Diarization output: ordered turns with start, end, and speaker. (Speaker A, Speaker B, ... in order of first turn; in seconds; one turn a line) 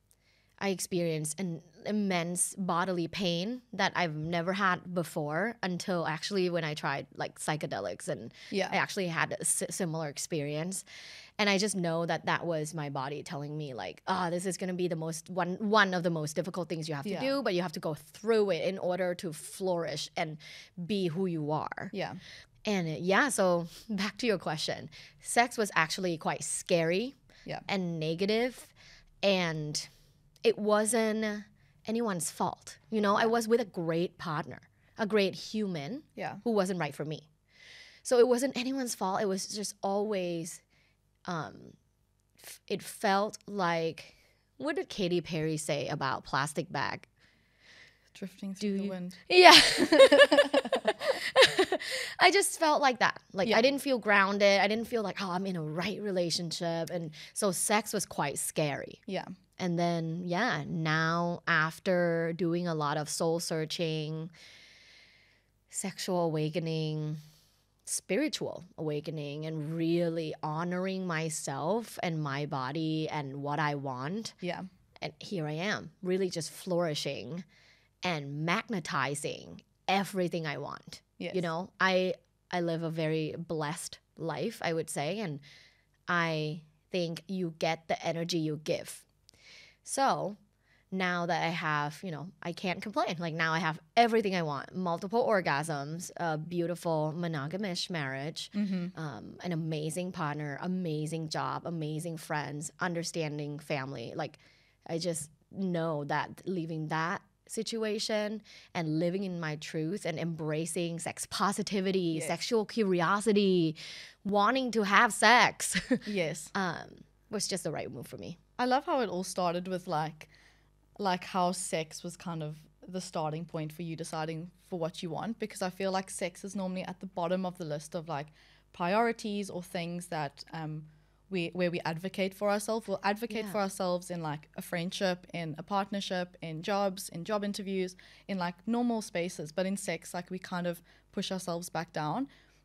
Speaker A: 0.6-10.8
Speaker B: 8.5-8.8
Speaker A: 11.4-21.9
Speaker B: 17.1-17.3
Speaker B: 21.9-22.2
Speaker A: 22.6-27.2
Speaker A: 27.7-29.9
Speaker A: 30.4-37.3
Speaker B: 36.2-36.4
Speaker A: 38.0-40.6
Speaker A: 41.2-41.8
Speaker A: 42.4-47.1
Speaker B: 48.1-49.2
Speaker A: 48.6-59.0
Speaker B: 49.8-51.0
Speaker B: 59.1-59.3
Speaker A: 59.6-64.3
Speaker A: 65.7-67.2
Speaker A: 67.9-74.3
Speaker B: 74.4-74.7
Speaker A: 75.0-77.5
Speaker A: 78.0-85.4
Speaker B: 81.2-81.5
Speaker A: 86.1-89.0
Speaker A: 89.8-90.4
Speaker A: 90.9-118.4
Speaker B: 98.5-98.9
Speaker B: 112.1-112.4
Speaker B: 116.1-116.5
Speaker B: 118.6-120.3
Speaker B: 121.0-142.3
Speaker A: 133.3-133.6